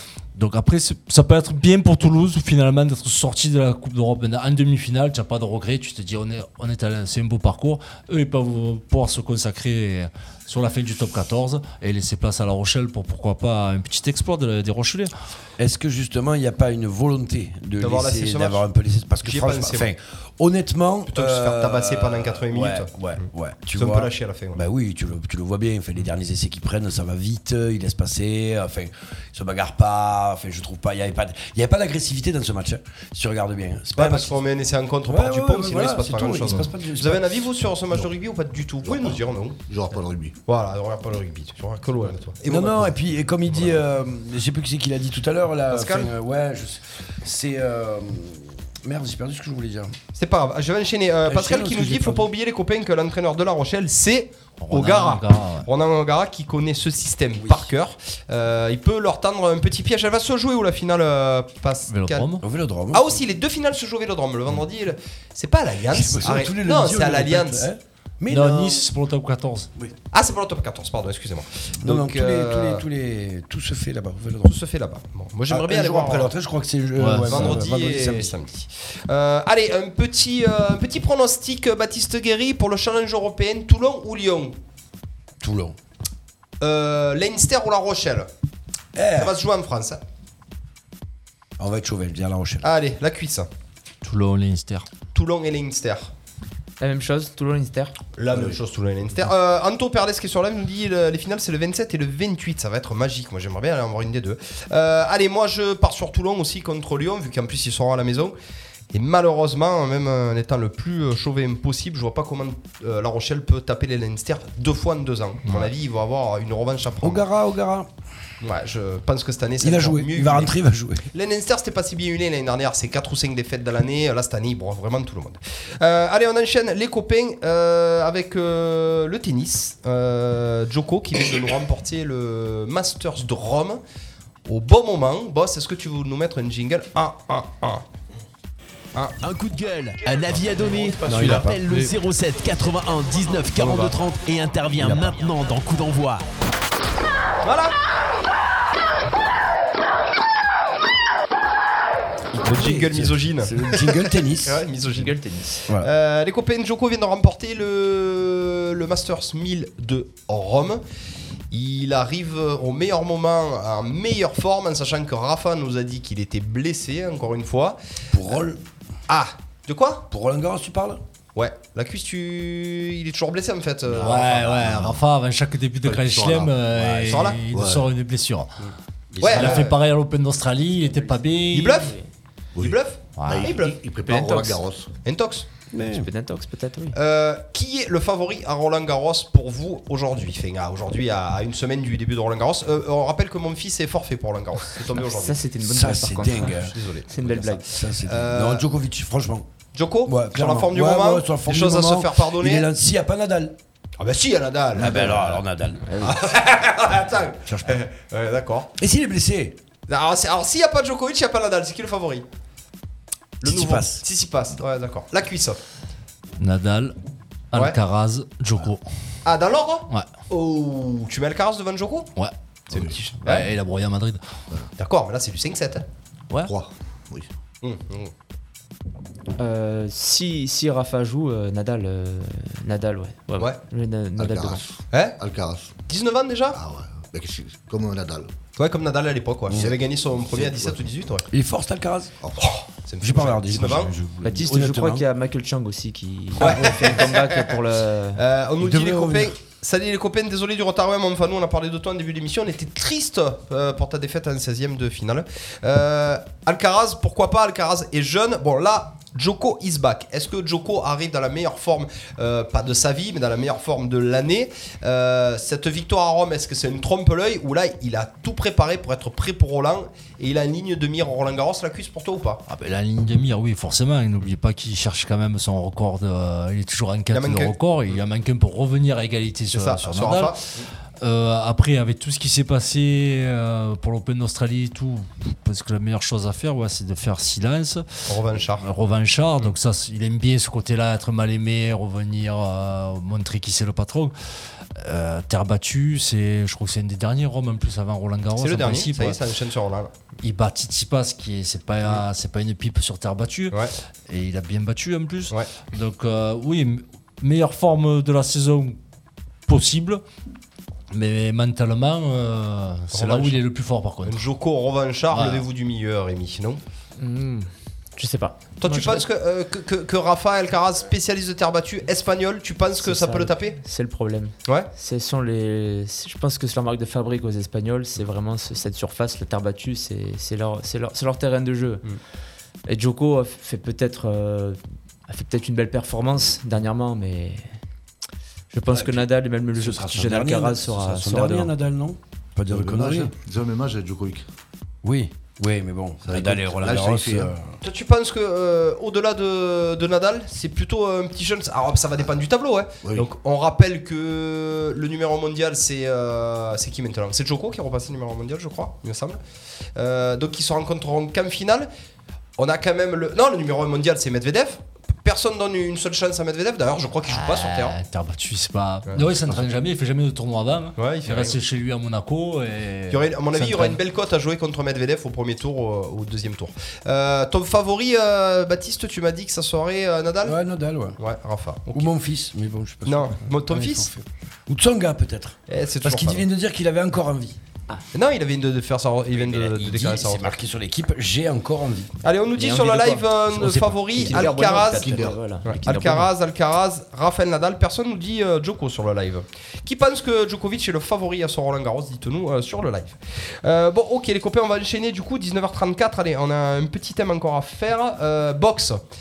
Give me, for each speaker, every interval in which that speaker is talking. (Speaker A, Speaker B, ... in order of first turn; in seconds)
Speaker A: 0.3-15.1, 54.6-55.7, 61.9-62.4, 68.3-69.7, 77.0-77.6, 94.0-94.9, 173.9-178.5, 179.3-181.9, 183.2-183.5, 216.4-216.9, 217.5-218.8, 223.2-224.2, 272.5-280.4, 281.0-287.9, 288.6-294.1, 294.8-299.2, 300.2-303.6, 304.1-308.8, 309.5-310.0, 310.9-314.2, 315.1-315.4, 367.1-373.8
Speaker B: 15.6-34.4, 35.0-37.3, 42.4-50.0, 51.2-52.3, 57.4-57.7, 62.4-63.2, 65.9-68.9, 71.8-74.6, 75.5-78.3, 85.4-85.8, 89.0-89.4, 91.6-92.7, 117.0-117.9, 119.6-121.1, 141.1-141.9, 143.6-143.9, 144.8-145.2, 152.3-154.6, 168.1-168.6, 170.1-171.0, 179.1-179.6, 185.7-186.1, 195.6-196.7, 197.6-199.5, 200.1-203.6, 204.7-206.2, 207.5-207.8, 208.8-209.6, 213.4-214.0, 241.3-242.1, 243.0-245.1, 246.4-247.1, 248.6-249.4, 338.7-343.1, 344.8-347.4, 380.2-381.0, 381.7-387.4, 389.1-391.9
Speaker C: 17.8-18.6, 19.2-19.9, 21.1-22.9, 23.7-24.6, 34.0-39.6, 40.5-42.9, 43.5-43.8, 45.7-46.1, 50.2-62.3, 62.9-67.7, 70.1-72.8, 74.5-76.3, 77.3-84.6, 86.6-88.3, 89.1-90.0, 92.6-93.5, 95.1-96.1, 98.2-108.3, 108.9-117.2, 118.4-120.5, 121.1-133.8, 134.5-137.8, 141.1-141.5, 147.4-147.8, 152.4-155.2, 155.7-160.8, 161.5-167.8, 169.1-170.1, 171.3-174.8, 177.1-177.4, 179.2-179.8, 181.5-182.0, 182.6-183.8, 185.1-185.5, 186.9-195.4, 196.6-198.7, 199.7-202.7, 204.0-205.4, 206.0-208.7, 209.9-212.3, 213.4-215.6, 219.2-222.1, 222.7-223.5, 224.8-225.9, 227.6-228.1, 234.9-235.2, 235.9-236.6, 238.6-241.3, 242.4-243.9, 246.4-247.5, 248.2-272.4, 277.1-277.6, 279.5-280.7, 288.1-288.6, 298.4-299.9, 312.9-313.4, 314.0-316.6, 318.6-323.6, 347.6-359.2, 359.8-361.7, 362.4-367.8, 370.8-371.4, 372.9-380.4, 381.0-381.9, 382.9-383.9, 385.5-386.2, 387.9-390.4, 392.0-408.8
Speaker D: 38.8-40.4, 174.1-175.0, 175.8-177.9, 182.6-184.9, 222.7-223.0, 226.4-227.3, 234.2-235.7, 236.5-238.3, 239.5-239.8, 240.3-240.8, 242.2-242.5, 342.5-344.2, 346.0-347.3, 352.8-353.1, 394.1-395.2
Speaker E: 96.8-98.0, 154.9-155.6, 184.0-184.6, 185.8-187.0, 195.0-197.6, 205.9-206.2, 229.4-234.7, 244.2-248.2, 317.0-319.1, 322.8-331.9, 332.7-337.5, 338.5-341.5, 392.3-396.1
Speaker F: 139.2-146.2